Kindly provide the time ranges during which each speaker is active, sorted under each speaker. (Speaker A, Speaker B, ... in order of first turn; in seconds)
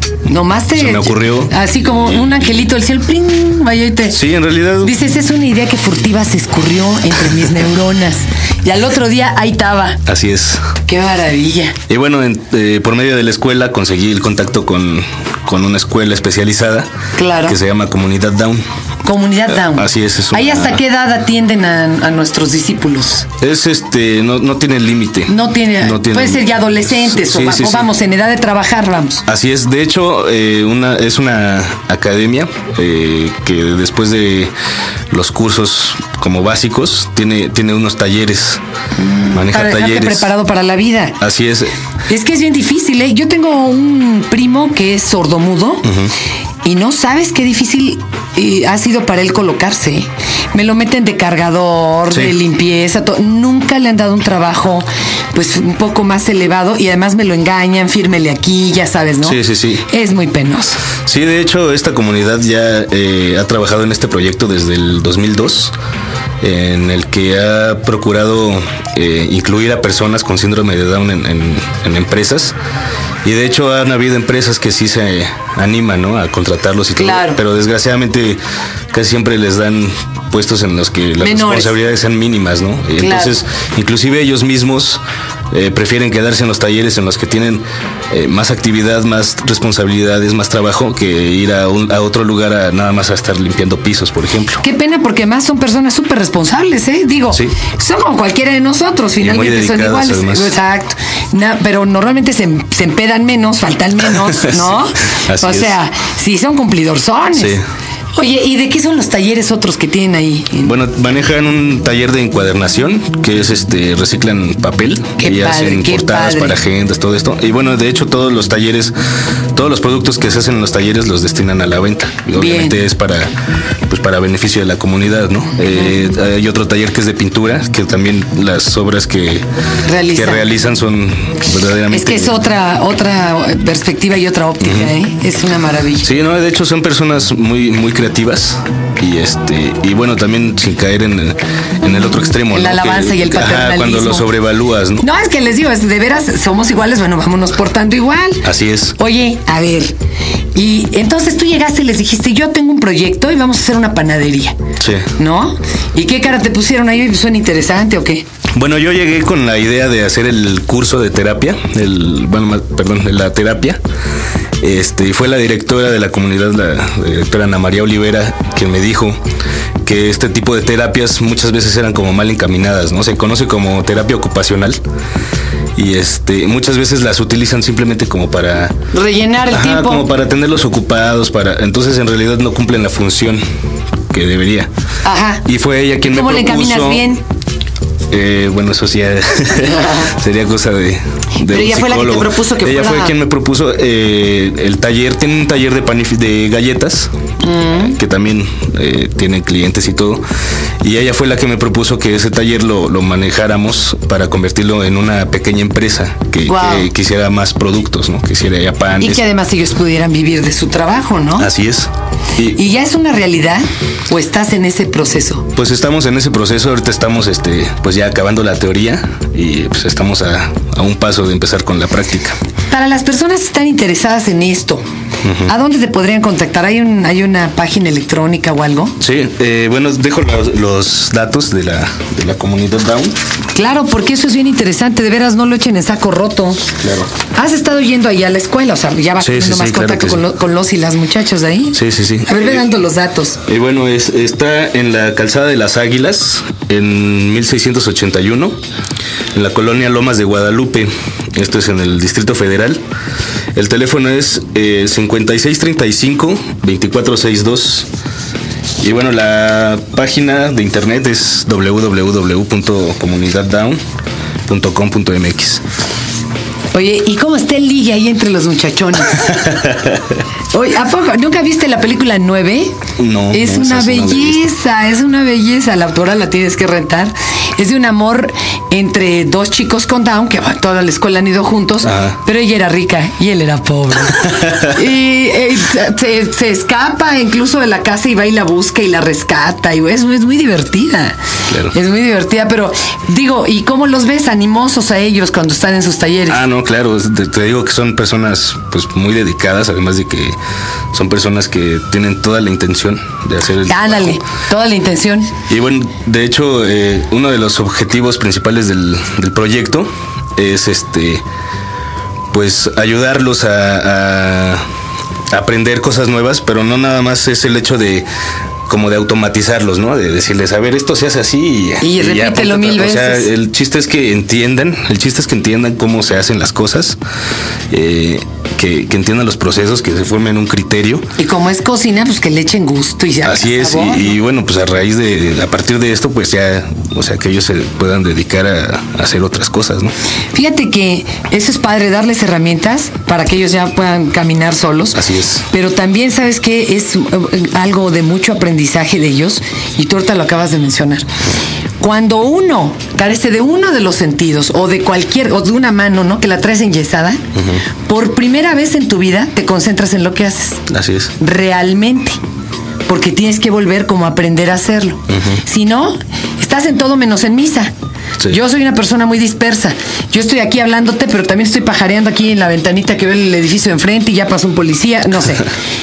Speaker A: 0.3-4.2, 4.8-10.0, 10.9-11.8, 17.2-17.6, 19.0-23.3, 25.3-29.2, 39.0-41.2, 42.1-45.9, 46.6-60.8, 77.0-77.4, 81.2-81.7, 83.0-83.3, 94.6-107.6, 108.2-110.7, 115.2-116.6, 122.3-122.8, 129.9-130.5, 131.9-136.1, 142.5-144.3, 145.0-149.9, 150.6-154.6, 155.2-158.2, 178.9-180.1, 185.0-185.4, 186.1-187.2, 191.4-193.2, 197.4-198.0, 206.5-206.9, 209.0-211.5, 212.5-215.5, 222.7-224.8, 225.4-229.0, 233.5-236.7, 237.3-243.4, 266.7-269.4, 270.5-272.8, 273.3-291.2, 291.7-296.4, 303.6-305.3, 321.8-323.3, 331.2-334.2, 340.3-351.1, 351.8-357.2, 357.9-360.6, 361.2-362.2, 362.9-367.7, 368.3-375.5
Speaker B: 0.8-2.5, 4.1-4.9, 10.1-10.7, 11.9-16.9, 17.5-18.6, 19.5-20.8, 23.4-27.9, 29.3-34.5, 35.1-38.6, 39.3-40.3, 41.2-41.7, 45.9-46.1, 59.2-59.8, 61.0-65.7, 66.4-72.5, 73.2-78.4, 78.9-94.6, 99.2-100.5, 104.1-105.8, 107.3-107.6, 110.6-118.9, 119.5-123.3, 123.9-129.4, 130.1-132.4, 134.6-134.9, 136.0-145.0, 148.4-148.9, 154.8-155.1, 158.6-163.8, 164.6-169.2, 169.8-174.8, 175.8-178.8, 179.5-183.4, 184.1-184.7, 185.4-187.1, 188.1-197.1, 197.8-200.2, 200.8-209.2, 211.4-212.6, 215.6-222.4, 225.2-225.5, 229.0-233.1, 236.8-237.1, 239.2-240.2, 241.7-242.6, 243.5-248.6, 249.3-252.8, 253.6-257.9, 258.8-263.8, 264.5-265.6, 269.4-270.0, 273.0-274.4, 281.8-282.2, 296.3-300.4, 300.9-304.1, 305.5-311.2, 312.3-314.6, 315.3-318.1, 318.7-327.0, 327.7-331.1, 333.2-339.9, 344.9-345.4, 357.4-357.6, 360.7-361.1, 365.1-365.4